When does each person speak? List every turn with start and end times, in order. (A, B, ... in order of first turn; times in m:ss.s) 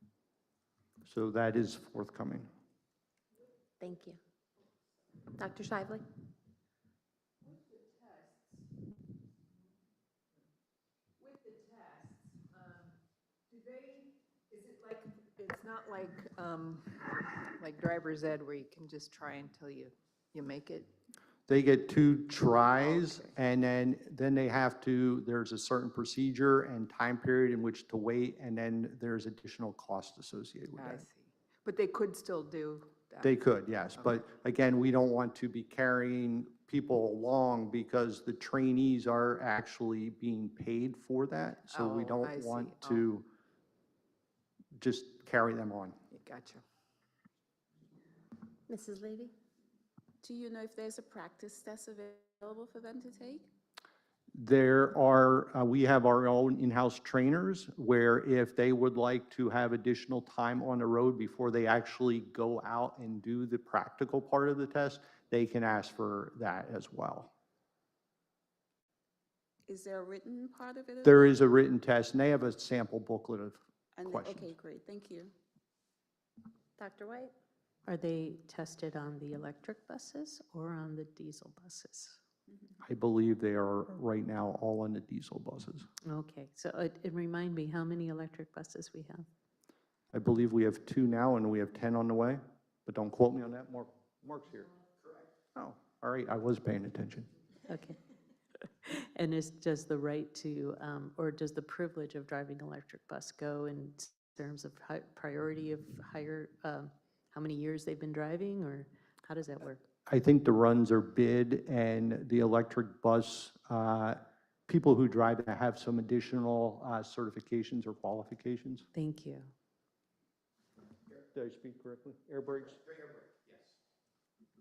0:01.1-0:02.5 A
0:03.8-0:04.2 B
0:05.4-0:06.0 B
0:07.4-0:08.6 C
0:11.2-0:12.9 C
0:13.5-0:20.9 C
0:21.5-0:31.0 A
0:22.7-0:23.4 C
0:30.8-0:33.4 C
0:33.2-0:43.2 A
0:33.9-0:34.2 C
0:41.6-0:43.2 C
0:44.8-0:46.0 A
0:46.1-0:46.6 C
0:48.7-0:49.3 B
0:50.2-0:53.5 D
0:54.4-1:07.3 A
1:09.7-1:11.3 D
1:11.0-1:14.5 A
1:14.0-1:15.3 D
1:16.8-1:17.3 B
1:17.9-1:22.2 E
1:22.8-1:25.9 A
1:26.0-1:29.3 E
1:30.1-1:34.7 A
1:35.6-1:37.3 A
1:37.7-1:38.0 E
1:38.6-1:49.8 E
1:50.1-1:58.9 A
1:58.9-1:59.5 E
2:01.2-2:03.0 A